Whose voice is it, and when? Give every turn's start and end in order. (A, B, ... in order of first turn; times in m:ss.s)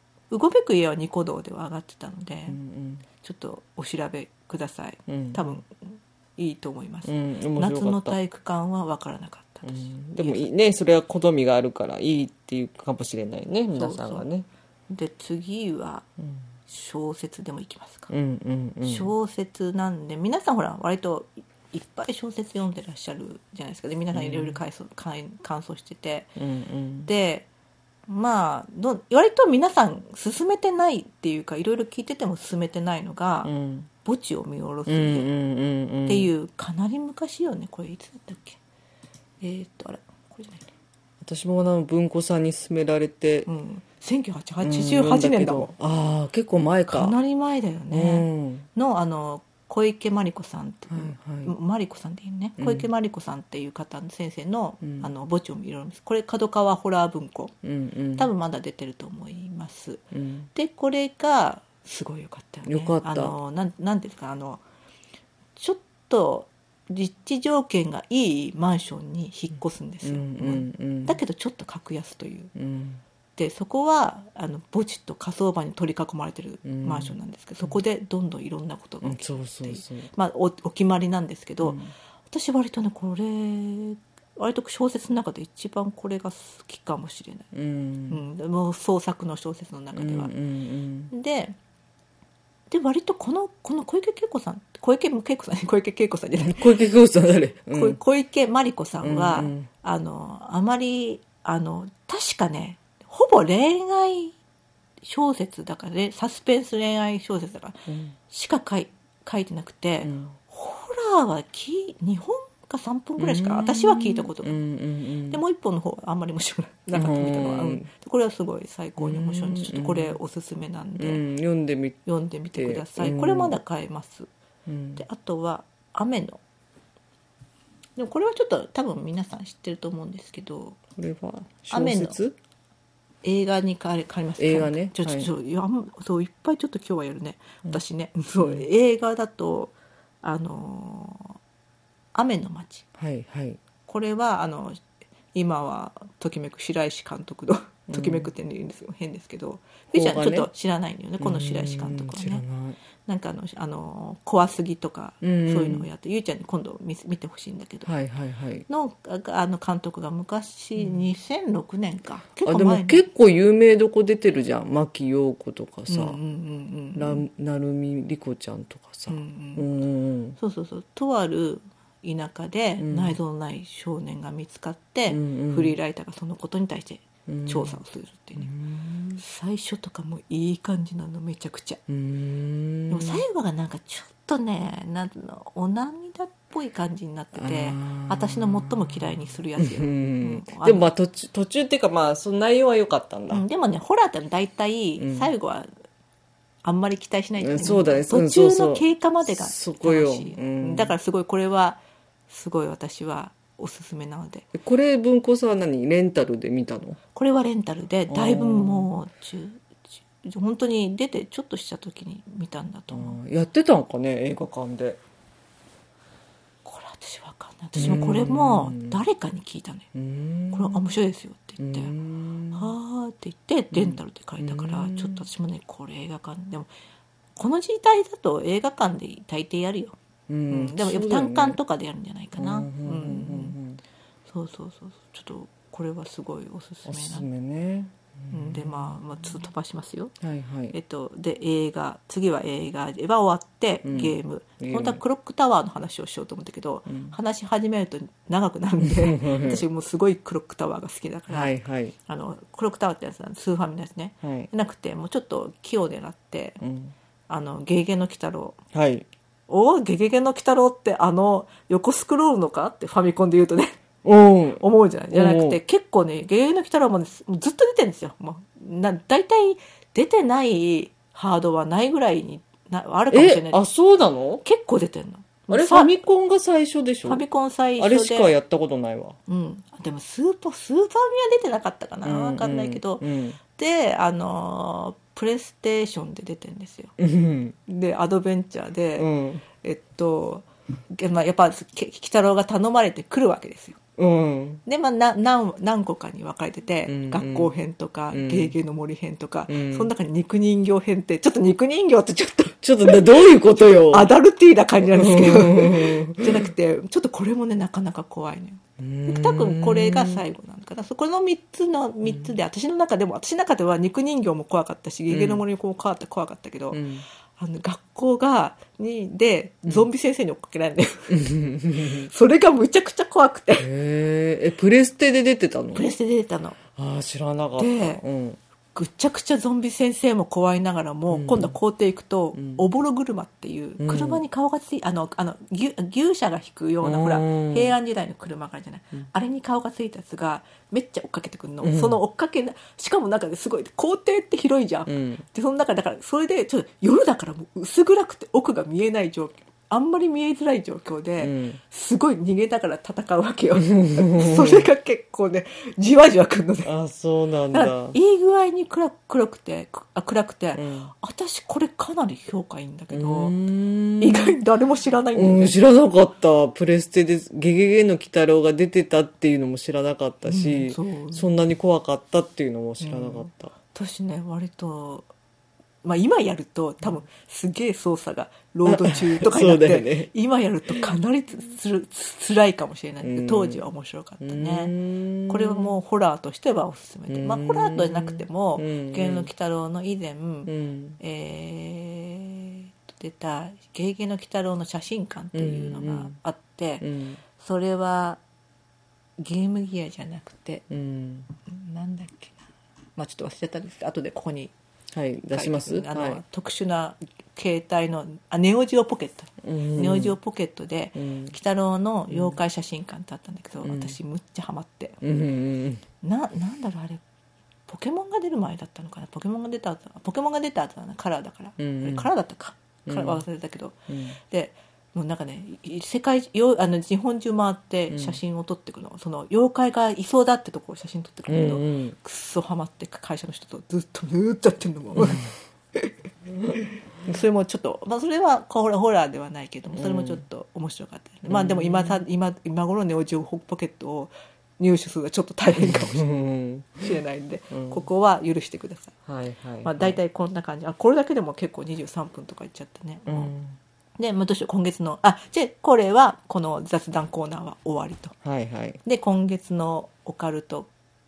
0:00.3-0:02.6 A
0:02.5-0:03.0 B
0:03.2-0:10.4 A
0:05.1-0:05.4 B
0:07.1-0:08.2 B
0:09.6-0:14.5 B
0:13.8-0:14.3 A
0:14.9-0:16.1 A
0:16.7-0:18.1 A
0:18.1-0:19.1 B
0:18.8-0:26.3 A
0:24.1-0:24.6 B
0:26.4-0:27.1 B
0:27.0-0:27.5 A
0:28.1-0:33.5 A
0:33.4-0:33.9 B
0:34.0-0:35.3 A
0:34.9-0:36.3 B
0:36.1-0:38.6 A
0:39.4-0:40.6 A
0:41.2-0:43.5 B
0:43.5-0:45.7 A
0:44.6-0:47.2 B
0:46.9-0:57.5 A
0:47.9-0:48.6 B
0:50.9-0:51.5 B
0:52.6-0:52.9 B
0:54.8-0:55.1 B
0:57.6-0:58.3 B
0:58.2-1:00.0 A
1:00.1-1:00.5 B
1:00.5-1:04.6 A
1:02.7-1:03.3 B
1:05.6-1:12.5 A
1:10.0-1:11.2 B
1:12.5-1:13.0 B
1:13.4-1:27.5 A
1:16.6-1:17.1 B
1:19.0-1:20.1 B
1:21.6-1:21.9 B
1:27.5-1:28.2 B
1:28.1-1:30.3 A
1:29.9-1:31.1 B
1:31.1-1:31.6 A
1:32.7-1:36.8 A
1:36.4-1:38.0 B
1:37.7-1:44.3 A
1:39.0-1:39.7 B
1:45.0-1:54.6 A
1:47.9-1:48.2 B
1:50.0-1:50.3 B
1:53.2-1:55.4 B
1:55.3-2:01.2 A
1:56.9-1:57.9 B
1:59.0-2:00.2 B
2:01.0-2:02.0 B
2:02.0-2:04.3 A
2:02.5-2:03.6 B
2:04.7-2:05.0 B
2:05.0-2:06.4 A
2:08.0-2:10.8 A
2:11.0-2:12.3 B
2:11.7-2:12.2 A
2:13.2-2:21.4 A
2:14.4-2:15.3 B
2:18.4-2:18.7 B
2:22.1-2:22.9 A
2:23.0-2:23.6 B
2:23.8-2:24.8 A
2:25.3-2:32.4 A
2:27.9-2:28.3 B
2:29.9-2:30.5 B
2:31.2-2:32.8 B
2:33.0-2:37.9 A
2:35.2-2:35.9 B
2:37.8-2:38.7 B
2:38.7-2:43.0 A
2:40.8-2:41.0 B
2:42.4-2:46.2 B
2:45.9-2:47.2 A
2:47.0-2:50.4 B
2:49.1-2:49.7 A
2:50.4-2:58.5 A
2:52.8-2:53.2 B
2:55.1-2:55.7 B
2:57.3-2:57.8 B
2:58.4-2:59.2 B
2:59.2-3:01.8 A
3:01.9-3:03.2 B
3:02.9-3:10.9 A
3:07.3-3:13.4 B
3:13.3-3:15.7 A
3:15.0-3:15.3 B
3:16.6-3:24.5 A
3:17.4-3:21.0 B
3:24.5-3:27.0 B
3:27.2-3:33.2 A
3:28.1-3:28.9 B
3:32.9-3:35.0 B
3:36.6-3:39.9 A
3:37.8-3:39.0 B
3:39.9-3:40.8 B
3:40.5-3:41.9 A
3:41.6-3:42.7 B
3:42.5-3:46.7 A
3:43.7-3:45.2 B
3:47.4-3:50.0 A
3:50.3-3:51.6 B
3:50.5-3:53.6 A
3:52.4-3:53.8 B
3:54.3-3:57.2 A
3:56.9-3:59.0 B
3:58.3-4:00.1 A
4:00.2-4:00.8 B
4:00.7-4:11.5 A
4:03.8-4:05.0 B
4:06.9-4:07.1 B
4:08.8-4:09.6 B
4:11.3-4:11.9 B
4:12.1-4:16.6 A
4:14.2-4:14.5 B
4:16.6-4:16.9 B
4:17.3-4:18.6 A
4:18.7-4:19.0 B
4:19.5-4:23.8 A
4:24.0-4:25.6 B
4:24.6-4:33.6 A
4:33.1-4:34.4 B
4:34.4-4:35.9 A
4:35.5-4:37.2 B
4:37.0-4:38.3 A
4:37.8-4:39.2 B
4:39.3-4:46.9 A
4:42.0-4:43.4 B
4:47.0-4:47.6 B
4:47.7-4:53.8 A
4:49.0-4:49.4 B
4:54.0-4:54.6 B
4:54.7-5:16.8 A
4:56.9-4:57.5 B
4:58.1-4:58.5 B
4:59.5-4:59.9 B
5:02.6-5:04.1 B
5:04.8-5:06.5 B
5:08.8-5:10.2 B
5:12.0-5:12.3 B
5:15.1-5:15.4 B
5:16.7-5:17.0 B
5:17.4-5:23.7 A
5:21.1-5:22.1 B
5:23.6-5:25.9 B
5:25.7-5:26.6 A
5:26.7-5:28.4 B
5:27.6-5:28.0 A
5:28.8-5:56.7 A
5:31.1-5:31.5 B
5:32.3-5:32.6 B
5:33.8-5:34.2 B
5:36.8-5:37.7 B
5:41.6-5:42.0 B
5:44.9-5:45.2 B
5:51.2-5:51.6 B
5:53.6-5:54.7 B
5:56.6-5:58.0 B
5:57.5-6:03.4 A
6:00.6-6:00.9 B
6:02.9-6:04.4 B
6:04.0-6:05.5 A
6:05.2-6:13.5 B
6:10.2-6:11.3 A
6:12.8-6:15.1 A
6:15.8-6:24.7 A
6:18.7-6:20.1 B
6:23.0-6:23.6 B
6:24.2-6:25.7 B
6:25.3-6:38.2 A
6:27.1-6:29.3 B
6:30.5-6:31.0 B
6:35.3-6:36.2 B
6:36.8-6:37.2 B
6:39.2-6:40.6 A
6:40.7-6:41.3 B
6:41.5-6:42.4 A
6:43.0-6:44.5 A
6:44.9-6:46.2 B
6:45.3-6:55.0 A
6:49.4-6:50.2 B
6:51.0-6:51.3 B
6:52.1-6:52.4 B
6:53.6-6:54.0 B
6:55.0-6:55.8 B
6:56.0-6:57.0 A
6:57.7-7:15.9 A
7:01.6-7:02.1 B
7:02.9-7:03.2 B
7:03.9-7:04.2 B
7:07.9-7:08.2 B
7:11.3-7:12.0 B
7:15.0-7:15.2 B
7:16.5-7:26.1 A
7:19.7-7:20.2 B
7:21.3-7:22.0 B
7:25.6-7:26.8 B
7:26.8-7:28.9 A
7:27.5-7:27.8 B
7:29.0-7:30.0 B
7:29.6-7:33.3 A
7:33.1-7:33.6 B
7:34.0-7:38.2 A
7:38.2-7:38.8 B
7:38.8-7:40.7 A